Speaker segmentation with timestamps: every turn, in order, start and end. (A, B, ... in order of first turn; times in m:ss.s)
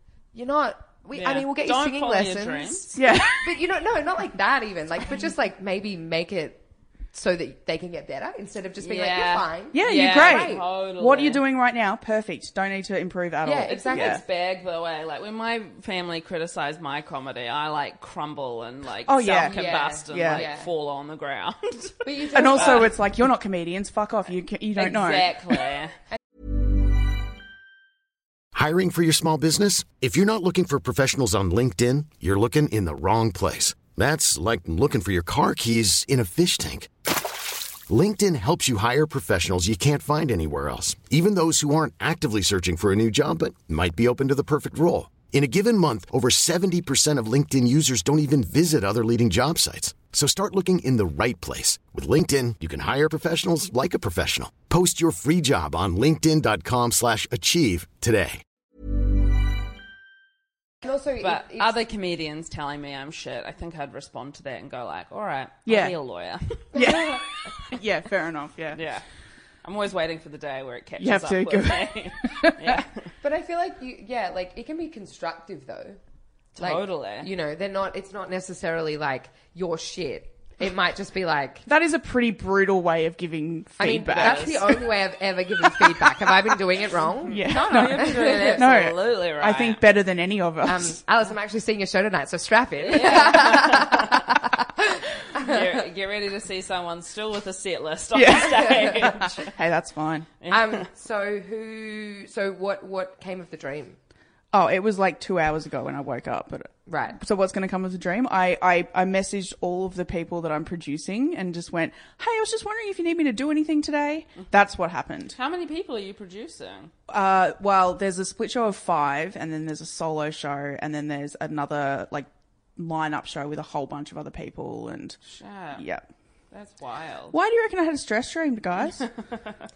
0:00.3-0:06.6 A
0:01.1-0:03.0 B
0:03.0-0:03.5 C
0:07.1-0:10.6 A
0:08.8-0:11.4 B
0:09.7-0:14.2 C
0:13.4-0:14.2 A
0:13.7-0:22.9 B
0:19.1-0:19.6 C
0:19.5-0:20.7 A
0:20.1-0:20.4 C
0:22.0-0:22.9 A
0:22.3-0:25.4 C
0:24.8-0:25.9 B
0:28.5-0:36.9 D
0:37.9-0:58.4 D
1:00.8-1:01.7 A
1:01.2-1:06.7 B
1:05.6-1:06.0 C
1:06.7-1:07.2 A
1:06.7-1:08.8 C
1:08.7-1:09.0 B
1:09.6-1:13.1 B
1:11.0-1:12.8 C
1:13.2-1:16.0 A
1:16.6-1:17.3 B
1:16.6-1:21.6 A
1:21.6-1:24.8 C
1:23.8-1:28.6 A
1:24.1-1:24.7 B
1:25.8-1:26.0 C
1:27.2-1:31.0 C
1:27.3-1:29.8 B
1:30.6-1:35.7 A
1:32.8-1:34.3 B
1:35.3-1:39.5 B
1:38.1-1:40.3 C
1:40.4-1:40.8 B
1:40.5-1:44.0 A
1:44.5-1:55.4 C
1:46.8-1:47.2 A
1:55.3-1:56.9 B
1:57.1-2:05.2 C
2:05.3-2:05.8 B
2:05.7-2:06.0 C
2:06.5-2:07.4 B
2:07.3-2:09.0 C
2:09.0-2:09.5 B